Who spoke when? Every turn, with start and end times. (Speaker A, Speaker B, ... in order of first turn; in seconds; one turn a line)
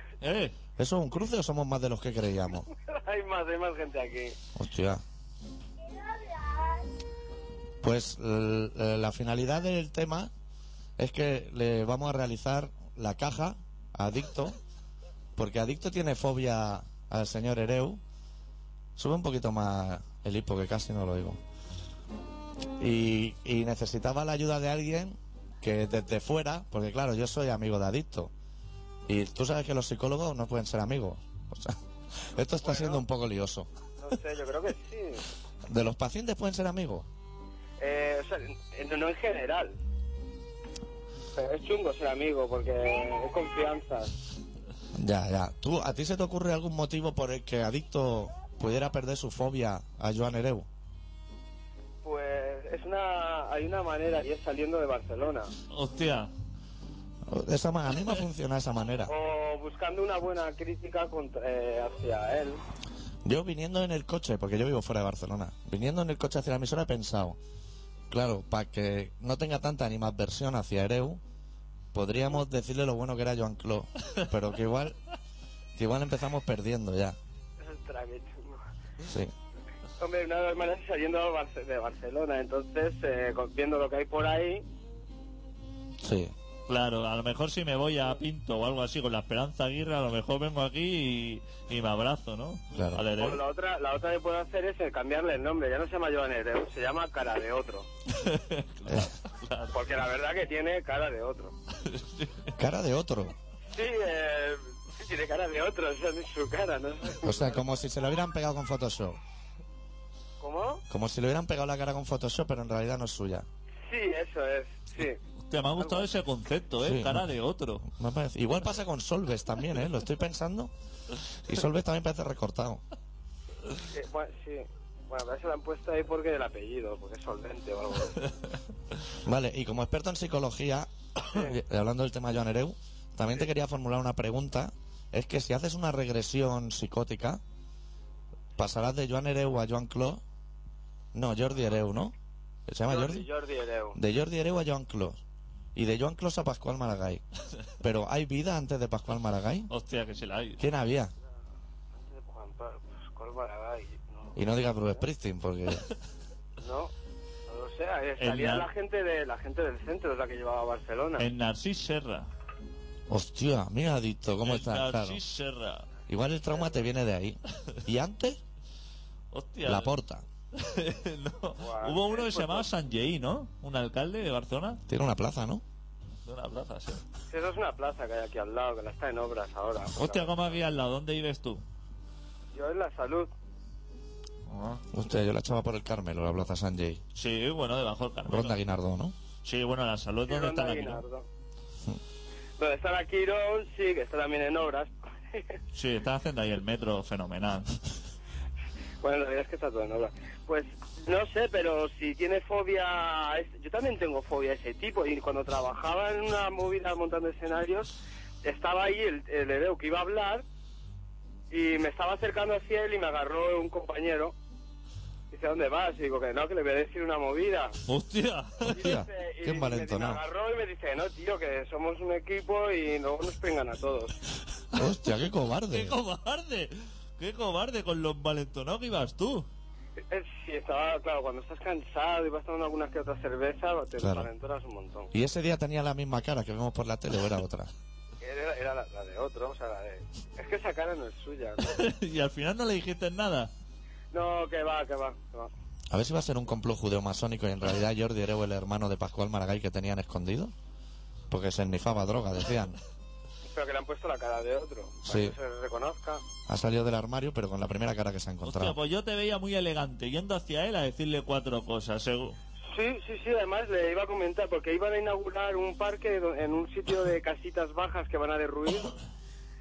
Speaker A: 0.2-0.6
Speaker B: 0.8-2.7
Speaker C: 2.9-4.4
Speaker B: 4.5-5.0
Speaker B: 7.8-10.3
Speaker B: 11.0-14.6
Speaker B: 15.4-18.0
Speaker B: 19.0-21.4
Speaker B: 22.8-28.3
Speaker B: 29.1-33.7
Speaker C: 32.6-33.0
Speaker C: 34.0-35.2
Speaker B: 35.7-37.1
Speaker C: 37.8-39.8
Speaker C: 41.4-44.1
Speaker B: 45.0-50.7
Speaker C: 52.0-55.5
Speaker A: 55.7-56.3
Speaker B: 57.3-59.1
Speaker C: 59.1-62.6
Speaker B: 63.2-67.4
Speaker B: 68.1-71.2
Speaker B: 71.9-75.0
Speaker B: 75.8-77.2
Speaker C: 77.6-78.6
Speaker B: 79.1-79.3
Speaker C: 80.0-84.6
Speaker B: 86.0-86.3
Speaker A: 86.7-93.4
Speaker B: 92.7-93.0
Speaker C: 93.2-97.9
Speaker A: 98.2-99.8
Speaker B: 98.9-99.1
Speaker C: 99.7-101.5
Speaker A: 101.9-102.5
Speaker B: 102.6-103.3
Speaker C: 103.7-107.6
Speaker B: 107.2-109.2
Speaker C: 110.4-110.8
Speaker B: 110.9-113.5
Speaker C: 113.9-115.2
Speaker A: 115.5-117.8
Speaker C: 115.8-116.1
Speaker B: 116.8-117.3
Speaker B: 117.8-120.7
Speaker B: 121.5-122.8
Speaker C: 123.9-128.3
Speaker B: 129.2-137.4
Speaker B: 138.6-140.2
Speaker B: 141.1-142.2
Speaker B: 142.7-143.2
Speaker C: 142.9-144.0
Speaker B: 143.9-145.2
Speaker B: 145.8-147.2
Speaker B: 147.8-149.7
Speaker A: 149.7-150.6
Speaker B: 150.6-151.1
Speaker C: 152.0-154.3
Speaker B: 154.3-155.8
Speaker C: 156.6-156.9
Speaker C: 157.5-161.3
Speaker A: 158.2-158.7
Speaker A: 161.2-162.3
Speaker B: 163.1-165.2
Speaker A: 164.4-165.9
Speaker B: 166.1-168.4
Speaker A: 169.3-169.9
Speaker B: 169.7-170.2
Speaker A: 170.5-174.8
Speaker C: 171.6-172.7
Speaker B: 174.9-175.6
Speaker A: 176.2-177.0
Speaker C: 177.3-180.6
Speaker A: 180.0-181.6
Speaker C: 182.5-183.3
Speaker A: 184.5-184.8
Speaker B: 184.9-187.0
Speaker A: 187.2-188.6
Speaker B: 188.3-189.2
Speaker A: 189.4-191.0
Speaker C: 190.3-191.3
Speaker C: 192.6-195.6
Speaker A: 195.8-197.7
Speaker C: 199.0-207.9
Speaker C: 208.4-210.4
Speaker C: 211.5-214.3
Speaker C: 215.3-217.7
Speaker A: 217.9-218.9
Speaker B: 218.7-220.2
Speaker C: 218.7-224.2
Speaker B: 224.8-226.0
Speaker A: 225.7-229.5
Speaker C: 230.1-235.1
Speaker B: 234.0-234.3
Speaker B: 235.1-237.7
Speaker C: 238.2-241.8
Speaker A: 241.7-243.5
Speaker C: 244.1-245.5
Speaker B: 245.9-250.5
Speaker B: 251.3-252.8
Speaker C: 253.5-256.2
Speaker B: 255.0-255.3
Speaker B: 256.5-258.8
Speaker A: 258.4-262.4
Speaker C: 262.7-268.9